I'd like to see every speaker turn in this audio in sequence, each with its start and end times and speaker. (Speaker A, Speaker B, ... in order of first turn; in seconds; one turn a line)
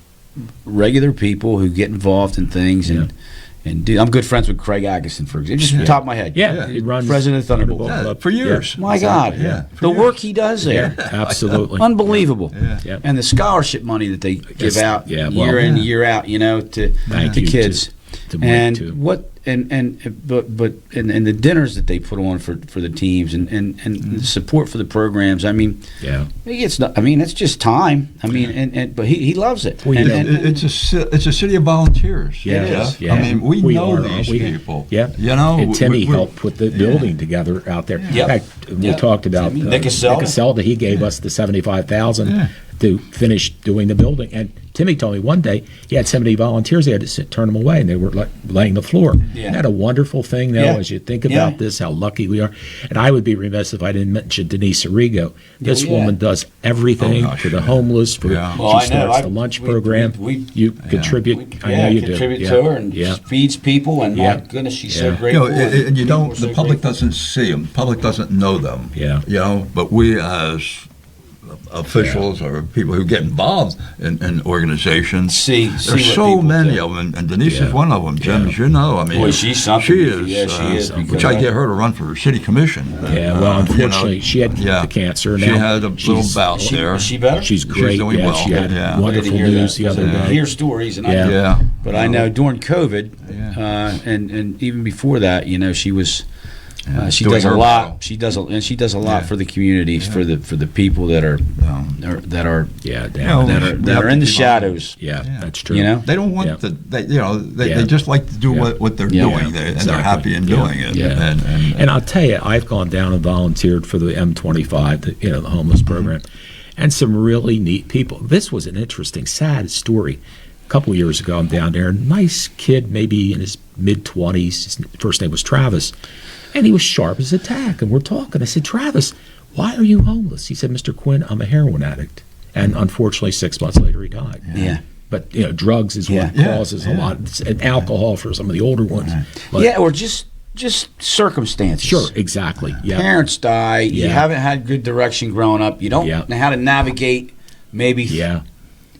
Speaker A: 0.6-3.1
Speaker A: 3.6-8.0
Speaker B: 5.7-6.7
Speaker C: 5.8-9.6
Speaker B: 7.8-10.2
Speaker A: 8.7-11.0
Speaker C: 10.7-12.2
Speaker B: 10.7-11.6
Speaker A: 11.8-25.9
Speaker B: 12.5-12.8
Speaker C: 14.6-15.8
Speaker B: 17.1-17.4
Speaker C: 17.1-18.9
Speaker C: 26.0-26.3
Speaker A: 26.4-30.5
Speaker C: 29.8-30.3
Speaker B: 30.0-37.1
Speaker A: 32.4-33.3
Speaker C: 32.4-63.2
Speaker B: 38.0-38.3
Speaker A: 38.1-40.4
Speaker B: 42.2-42.5
Speaker A: 49.3-49.6
Speaker A: 50.5-51.6
Speaker A: 55.6-56.1
Speaker B: 57.0-58.6
Speaker A: 58.6-60.5
Speaker B: 60.8-61.2
Speaker A: 61.3-66.8
Speaker C: 64.1-65.2
Speaker B: 65.3-70.9
Speaker C: 69.0-69.2
Speaker B: 71.5-87.1
Speaker C: 71.9-72.3
Speaker A: 75.3-76.8
Speaker C: 77.4-78.5
Speaker A: 79.1-81.5
Speaker C: 80.7-81.3
Speaker C: 83.0-86.7
Speaker A: 86.5-87.5
Speaker C: 87.4-90.4
Speaker B: 87.7-89.1
Speaker A: 88.6-96.2
Speaker B: 89.9-90.4
Speaker C: 91.0-91.3
Speaker B: 91.2-92.3
Speaker B: 93.3-93.5
Speaker B: 96.9-98.0
Speaker A: 96.9-102.8
Speaker B: 99.0-99.3
Speaker B: 101.6-102.0
Speaker C: 102.8-103.6
Speaker B: 103.2-105.5
Speaker A: 103.3-104.9
Speaker C: 105.0-106.6
Speaker A: 105.7-106.0
Speaker B: 106.0-111.9
Speaker C: 107.6-107.9
Speaker A: 109.1-109.5
Speaker C: 109.3-116.2
Speaker C: 116.8-125.9
Speaker C: 126.5-134.5
Speaker B: 134.5-134.7
Speaker A: 134.5-134.8
Speaker C: 135.1-139.7
Speaker A: 136.1-136.3
Speaker B: 136.3-137.1
Speaker A: 139.5-142.1
Speaker C: 141.8-143.1
Speaker A: 142.8-148.3
Speaker C: 143.9-144.3
Speaker C: 145.9-146.2
Speaker C: 148.1-148.4